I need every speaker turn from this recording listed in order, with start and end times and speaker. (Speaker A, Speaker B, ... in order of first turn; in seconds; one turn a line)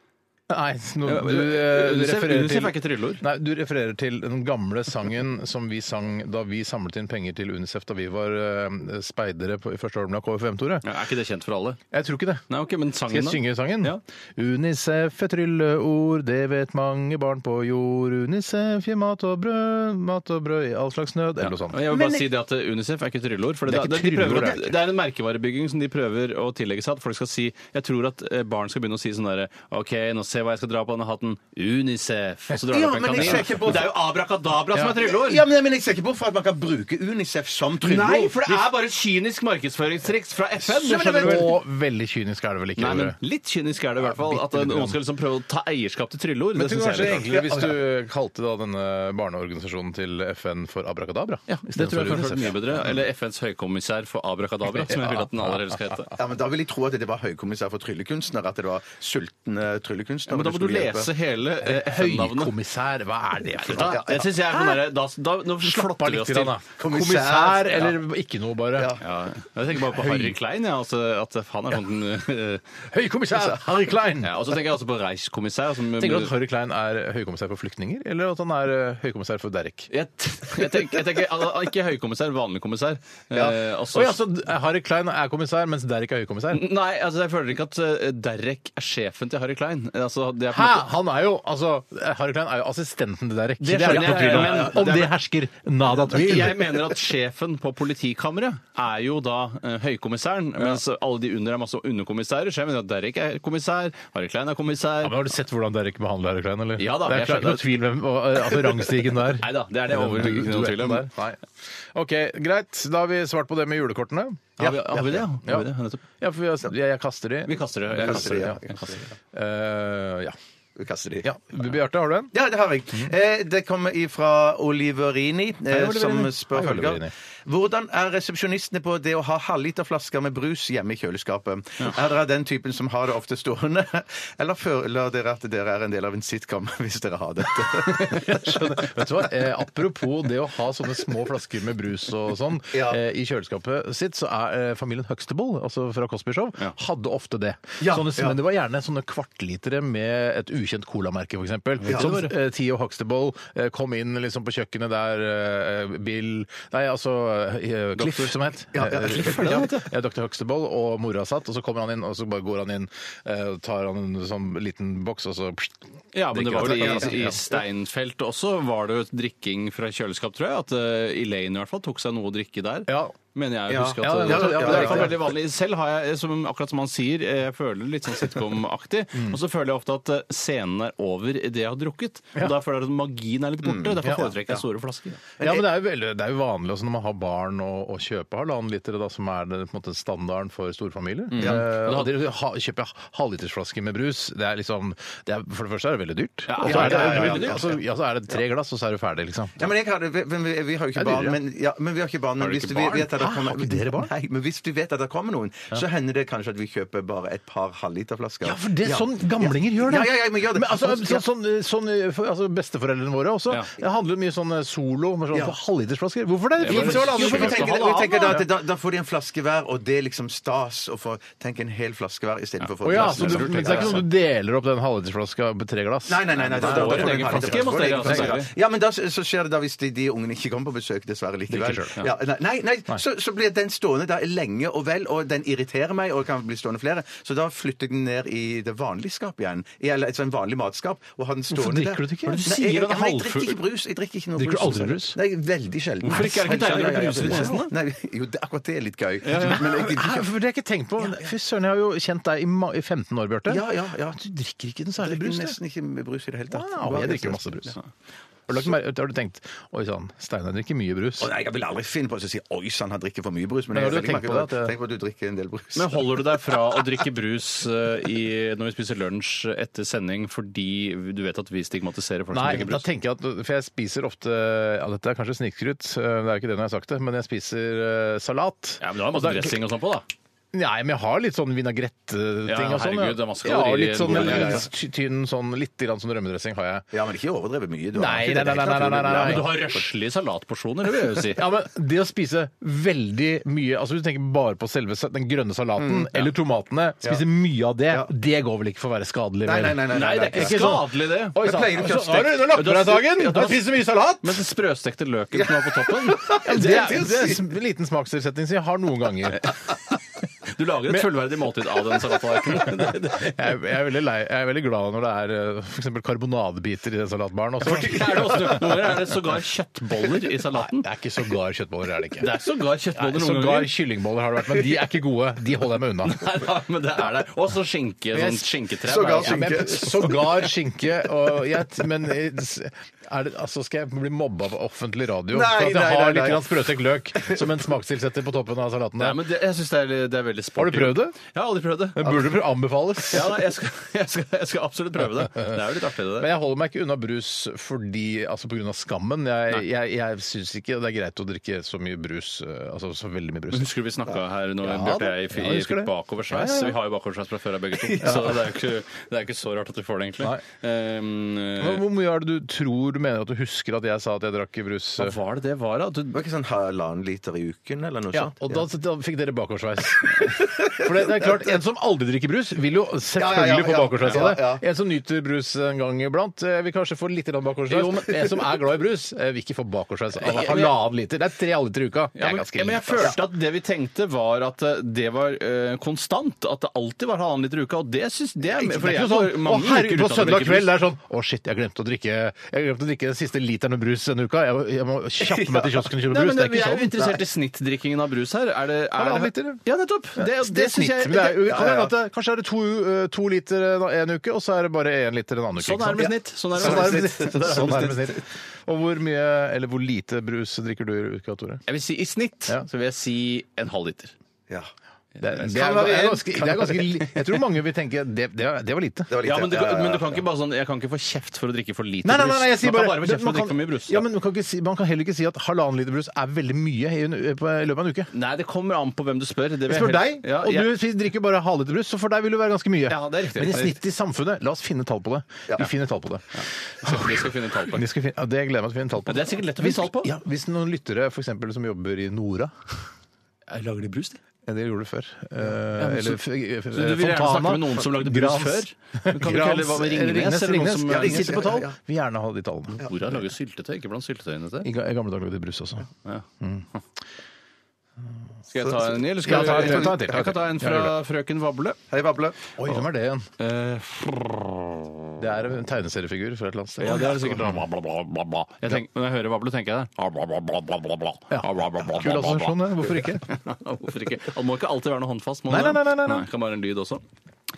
Speaker A: 0.5-10.8
Speaker B: 1.0-3.2
Speaker B: 10.8-11.8
Speaker A: 11.9-12.4
Speaker B: 12.5-14.0
Speaker A: 13.0-21.9
Speaker B: 21.4-35.4
Speaker C: 21.9-22.2
Speaker A: 23.6-24.8
Speaker C: 32.7-34.0
Speaker A: 33.1-33.9
Speaker C: 34.9-38.6
Speaker B: 37.8-41.5
Speaker C: 40.6-41.6
Speaker A: 41.2-43.2
Speaker B: 42.8-47.3
Speaker A: 44.0-45.0
Speaker A: 46.5-53.0
Speaker C: 47.3-47.8
Speaker B: 51.5-56.1
Speaker A: 54.7-56.1
Speaker C: 56.1-61.1
Speaker B: 60.3-62.5
Speaker A: 61.6-64.8
Speaker B: 63.6-66.6
Speaker C: 63.7-64.5
Speaker A: 65.6-69.0
Speaker C: 66.8-67.9
Speaker C: 68.8-69.0
Speaker B: 69.0-72.6
Speaker A: 69.7-70.4
Speaker A: 72.9-74.4
Speaker B: 74.2-76.3
Speaker A: 75.9-79.9
Speaker B: 79.9-84.2
Speaker A: 80.5-80.9
Speaker A: 83.9-86.7
Speaker B: 86.5-90.9
Speaker A: 90.5-96.9
Speaker B: 93.6-95.1
Speaker C: 93.8-94.8
Speaker B: 95.9-105.2
Speaker A: 105.0-111.4
Speaker B: 106.8-107.7
Speaker B: 109.4-111.1
Speaker A: 111.9-114.5
Speaker B: 114.6-116.0
Speaker C: 114.6-115.2
Speaker A: 115.4-118.6
Speaker B: 117.5-119.0
Speaker C: 117.9-119.1
Speaker A: 119.3-120.3
Speaker C: 120.8-121.3
Speaker A: 121.2-122.3
Speaker C: 122.3-138.9
Speaker A: 125.7-127.1
Speaker A: 137.9-165.8
Speaker C: 142.7-143.0
Speaker C: 147.8-148.4
Speaker B: 151.8-152.3
Speaker C: 151.9-152.1
Speaker B: 157.9-158.3
Speaker C: 158.7-159.7
Speaker B: 159.0-159.9
Speaker B: 166.1-185.2
Speaker A: 166.3-167.4
Speaker C: 166.6-167.5
Speaker A: 172.9-173.1
Speaker C: 173.7-175.2
Speaker A: 174.0-175.2
Speaker C: 183.6-184.6
Speaker A: 184.0-184.3
Speaker C: 185.4-185.7
Speaker A: 185.4-199.7
Speaker B: 191.3-192.1
Speaker C: 191.3-191.6
Speaker B: 196.5-197.7
Speaker C: 196.6-197.7
Speaker C: 199.6-211.2
Speaker A: 201.0-201.3
Speaker B: 202.4-203.1
Speaker A: 203.1-204.1
Speaker A: 208.4-218.4
Speaker B: 216.6-218.4
Speaker C: 216.7-224.0
Speaker A: 222.8-228.4
Speaker B: 222.8-224.0
Speaker C: 226.1-250.3
Speaker B: 226.4-228.5
Speaker A: 231.5-232.0
Speaker A: 241.5-242.5
Speaker B: 242.2-243.6
Speaker A: 244.4-245.2
Speaker B: 246.0-247.7
Speaker A: 246.1-247.6
Speaker B: 249.2-249.7
Speaker A: 249.3-255.6
Speaker C: 253.5-254.2
Speaker C: 255.0-257.8
Speaker A: 256.5-257.8
Speaker A: 258.5-261.3
Speaker C: 261.2-266.8
Speaker A: 263.7-264.7
Speaker B: 265.7-272.9
Speaker A: 272.3-279.6
Speaker B: 278.8-280.1
Speaker A: 280.5-286.8
Speaker B: 282.4-284.6
Speaker C: 284.0-284.6
Speaker C: 286.9-289.8
Speaker A: 287.9-289.5
Speaker B: 289.1-291.4
Speaker A: 291.3-304.4
Speaker C: 295.8-296.2
Speaker C: 299.4-302.6
Speaker B: 299.9-303.7
Speaker B: 304.2-306.5
Speaker C: 305.3-307.5
Speaker A: 306.4-309.5
Speaker B: 310.5-313.5
Speaker A: 310.9-311.1
Speaker A: 312.5-318.6
Speaker B: 317.6-320.9
Speaker A: 320.5-322.4
Speaker B: 322.2-323.7
Speaker A: 322.9-326.2
Speaker B: 326.0-330.1
Speaker A: 328.1-328.5
Speaker C: 328.8-330.5
Speaker A: 329.1-339.2
Speaker C: 335.3-336.6
Speaker C: 337.1-337.4
Speaker B: 339.0-342.1
Speaker A: 340.6-341.2
Speaker A: 341.9-343.3
Speaker B: 343.1-346.3
Speaker A: 345.0-345.6
Speaker A: 346.2-353.7
Speaker B: 353.5-361.8
Speaker A: 354.6-356.8
Speaker A: 361.6-365.2
Speaker B: 365.0-366.2
Speaker C: 366.1-368.6
Speaker A: 368.1-383.1
Speaker C: 370.4-371.4
Speaker C: 373.1-374.6
Speaker B: 377.7-378.1
Speaker B: 380.2-380.8
Speaker B: 382.2-390.7
Speaker A: 388.4-397.2
Speaker B: 396.1-401.7
Speaker A: 398.9-399.6
Speaker A: 400.1-411.6
Speaker C: 401.4-401.9
Speaker B: 405.6-407.9
Speaker C: 406.6-408.0
Speaker B: 411.7-414.1
Speaker A: 415.2-419.1
Speaker B: 415.2-416.1
Speaker C: 415.5-417.1
Speaker C: 419.1-420.2
Speaker B: 419.2-424.0
Speaker A: 422.0-428.1
Speaker B: 428.1-430.7
Speaker A: 429.6-442.8
Speaker B: 432.9-433.8
Speaker B: 436.3-437.8
Speaker B: 439.0-440.1
Speaker B: 443.5-444.2
Speaker A: 444.4-453.2
Speaker B: 445.8-451.6
Speaker C: 450.9-451.8
Speaker B: 452.8-454.7
Speaker A: 454.6-455.9
Speaker B: 456.0-456.8
Speaker A: 456.4-456.7
Speaker B: 458.5-461.8
Speaker C: 458.6-460.2
Speaker A: 459.2-461.0
Speaker C: 461.9-462.4
Speaker A: 462.6-463.3
Speaker B: 463.4-464.9
Speaker A: 465.2-467.6
Speaker B: 466.8-477.0
Speaker A: 471.3-473.2
Speaker A: 475.5-476.2